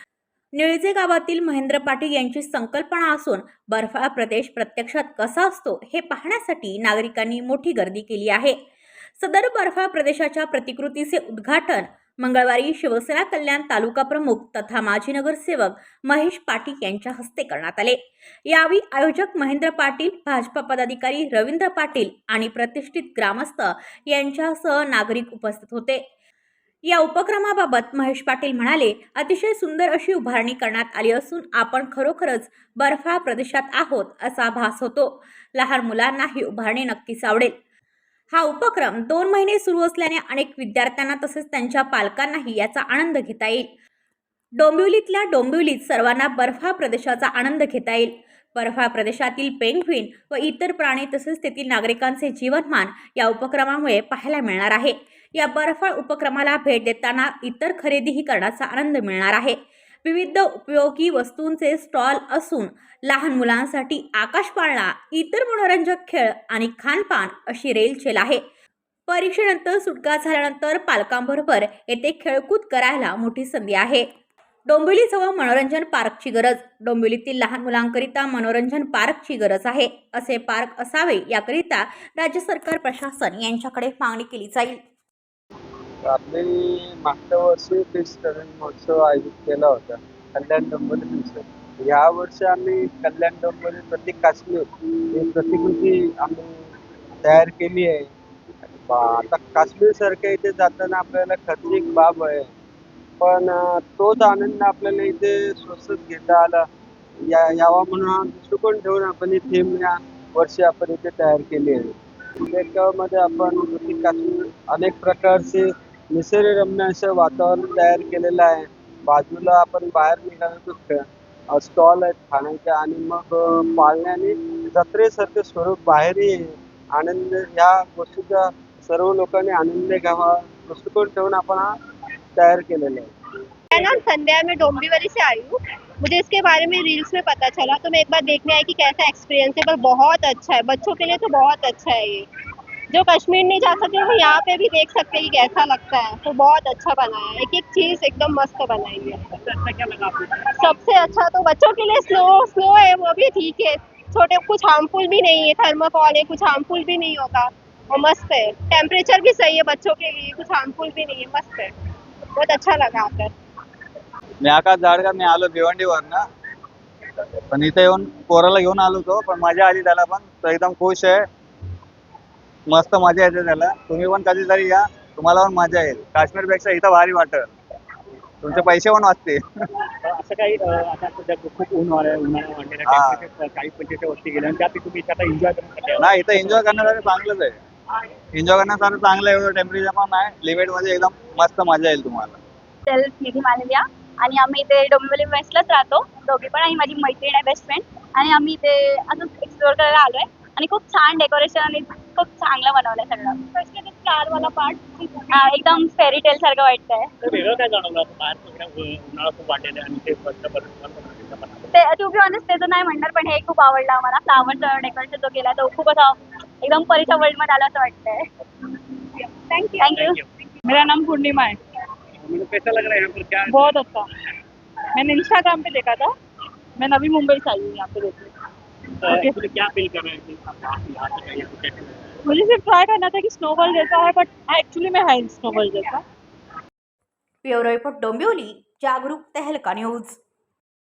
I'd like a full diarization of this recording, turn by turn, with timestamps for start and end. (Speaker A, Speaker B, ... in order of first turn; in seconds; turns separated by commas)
Speaker A: 0.6-8.6, Speaker A: 9.2-26.0, Speaker A: 26.9-37.5, Speaker A: 38.3-43.7, Speaker A: 44.6-68.4, Speaker A: 69.1-74.1, Speaker A: 74.7-84.8, Speaker B: 86.0-96.7, Speaker B: 97.2-98.1, Speaker B: 98.9-102.5, Speaker B: 103.2-106.7, Speaker B: 107.2-131.7, Speaker B: 132.4-133.1, Speaker C: 133.7-142.3, Speaker C: 142.9-149.2, Speaker D: 149.3-150.5, Speaker C: 150.6-161.7, Speaker C: 162.4-163.3, Speaker E: 164.4-166.2, Speaker E: 167.5-171.2, Speaker E: 172.7-177.5, Speaker E: 178.4-179.4, Speaker D: 180.0-186.6, Speaker E: 182.9-183.2, Speaker E: 186.0-187.6, Speaker E: 188.3-192.4, Speaker F: 192.9-203.4, Speaker G: 203.5-205.3, Speaker F: 205.3-207.1, Speaker D: 207.2-211.7, Speaker F: 211.7-218.2, Speaker F: 219.8-220.2, Speaker D: 219.9-220.3, Speaker G: 220.7-221.6, Speaker D: 222.2-223.8, Speaker G: 223.5-224.1, Speaker G: 224.9-226.1, Speaker G: 226.8-228.3, Speaker D: 229.0-232.1, Speaker G: 229.1-229.4, Speaker G: 232.2-236.0, Speaker A: 237.4-240.2